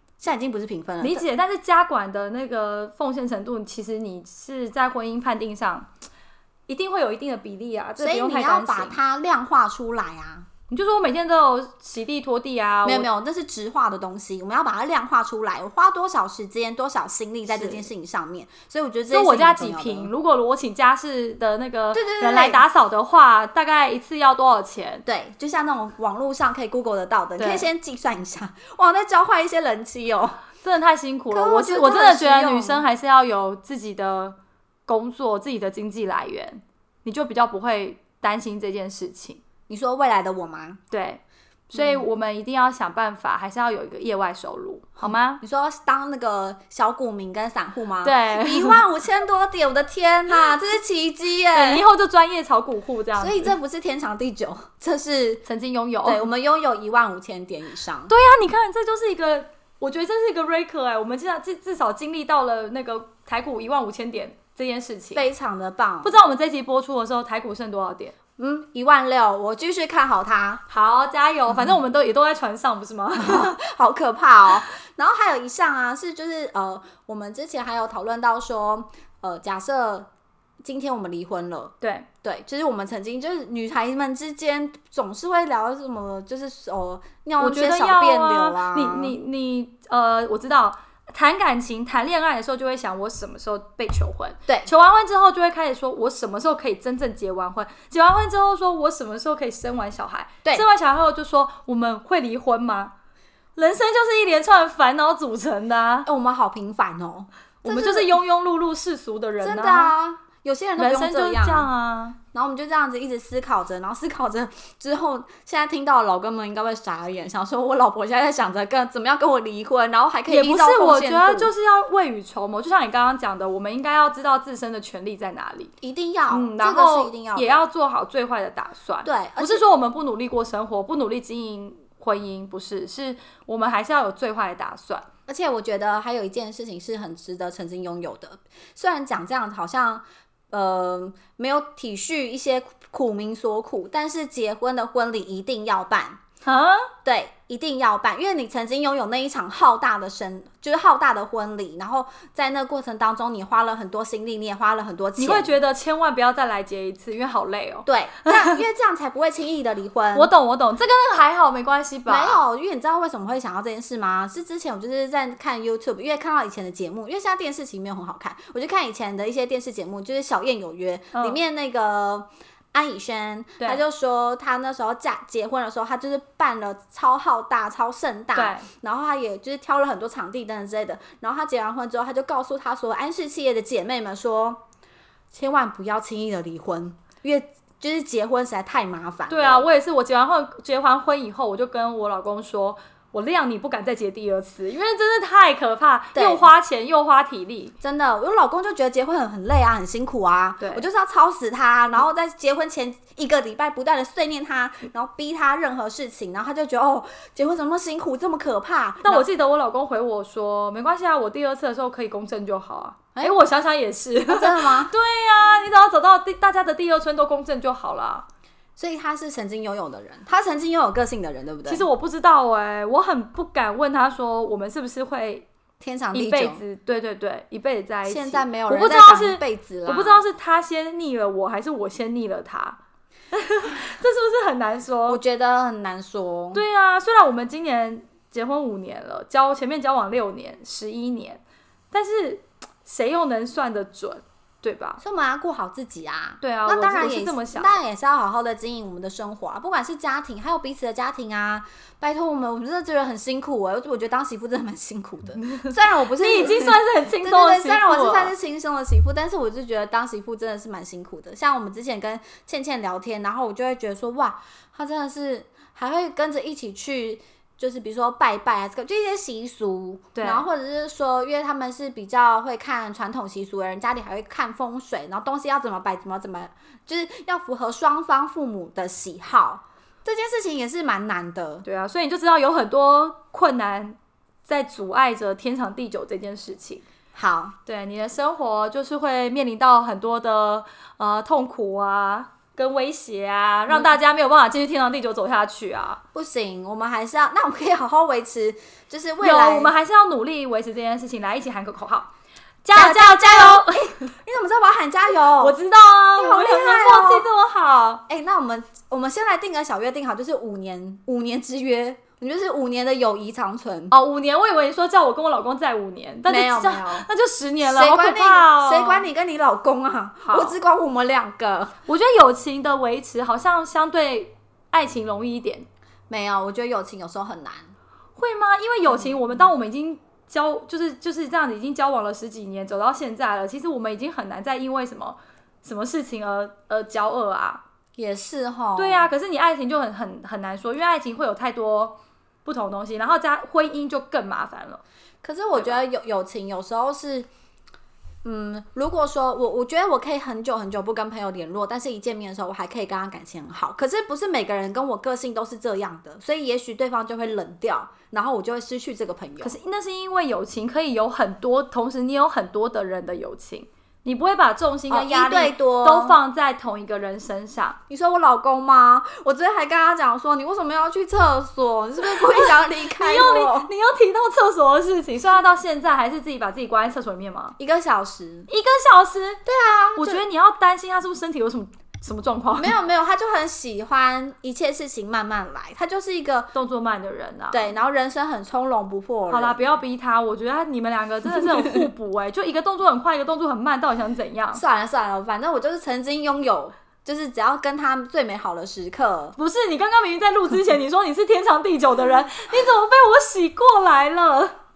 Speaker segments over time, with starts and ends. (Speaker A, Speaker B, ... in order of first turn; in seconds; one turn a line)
Speaker A: 0.2-1.2
Speaker B: 1.0-5.9
Speaker B: 6.7-9.0
Speaker A: 8.0-10.5
Speaker B: 10.7-13.1
Speaker A: 12.8-20.1
Speaker B: 17.5-17.9
Speaker B: 19.1-25.0
Speaker A: 21.9-22.6
Speaker A: 25.1-30.4
Speaker B: 27.4-27.7
Speaker B: 30.6-34.4
Speaker A: 31.3-32.8
Speaker B: 34.9-39.4
Speaker A: 39.7-40.8
Speaker B: 40.9-45.4
Speaker A: 41.8-42.0
Speaker A: 45.0-51.9
Speaker B: 48.0-48.8
Speaker B: 51.5-53.5
Speaker A: 53.1-55.4
Speaker B: 55.4-56.2
Speaker A: 56.0-58.1
Speaker B: 58.1-65.2
Speaker A: 65.1-66.2
Speaker B: 66.0-68.1
Speaker A: 68.4-70.6
Speaker B: 70.7-73.5
Speaker A: 73.1-80.1
Speaker A: 80.6-89.2
Speaker B: 81.8-82.1
Speaker B: 87.4-102.9
Speaker B: 103.5-106.1
Speaker A: 106.0-108.2
Speaker B: 107.6-109.9
Speaker A: 109.4-111.7
Speaker B: 110.8-112.2
Speaker A: 112.3-121.5
Speaker B: 120.3-125.7
Speaker A: 125.8-127.7
Speaker B: 126.3-135.1
Speaker A: 129.0-129.6
Speaker A: 135.3-146.2
Speaker B: 146.4-146.9
Speaker A: 147.0-155.6
Speaker B: 155.2-158.6
Speaker A: 157.8-160.3
Speaker B: 160.1-162.4
Speaker A: 162.1-184.6
Speaker B: 171.1-171.4
Speaker B: 178.3-178.7
Speaker A: 185.3-189.7
Speaker B: 189.3-197.7
Speaker A: 196.1-196.5
Speaker A: 197.8-209.2
Speaker B: 200.6-200.8
Speaker B: 209.0-218.2
Speaker A: 213.2-213.4
Speaker A: 214.3-214.9
Speaker A: 218.8-221.9
Speaker B: 221.7-225.5
Speaker A: 225.8-226.6
Speaker B: 226.1-232.8
Speaker A: 228.0-230.2
Speaker B: 233.3-235.2
Speaker A: 235.1-236.6
Speaker B: 236.5-245.0
Speaker A: 245.0-281.6
Speaker B: 246.4-247.8
Speaker B: 256.2-258.3
Speaker B: 270.1-270.4
Speaker B: 281.6-286.8
Speaker A: 287.1-287.6
Speaker B: 287.6-296.0
Speaker A: 296.1-299.7
Speaker B: 299.2-302.1
Speaker B: 302.6-304.1
Speaker A: 302.7-305.6
Speaker B: 305.2-308.0
Speaker A: 306.2-307.2
Speaker A: 308.1-313.9
Speaker B: 313.9-319.1
Speaker A: 316.2-317.1
Speaker A: 317.6-321.8
Speaker B: 320.2-320.6
Speaker B: 321.9-325.7
Speaker A: 326.1-327.7
Speaker B: 328.2-337.6
Speaker A: 338.0-339.1
Speaker B: 338.8-344.8
Speaker A: 345.2-347.3
Speaker B: 345.5-345.8
Speaker A: 348.2-359.6
Speaker B: 359.4-367.8
Speaker A: 364.9-366.2
Speaker A: 367.9-373.7
Speaker B: 372.0-377.6
Speaker A: 377.6-378.5
Speaker B: 378.5-379.4
Speaker A: 379.4-380.2
Speaker B: 379.9-382.7
Speaker A: 382.5-386.5
Speaker B: 386.5-387.8
Speaker A: 387.5-389.8
Speaker B: 389.3-394.6
Speaker A: 394.5-399.4
Speaker B: 399.4-404.6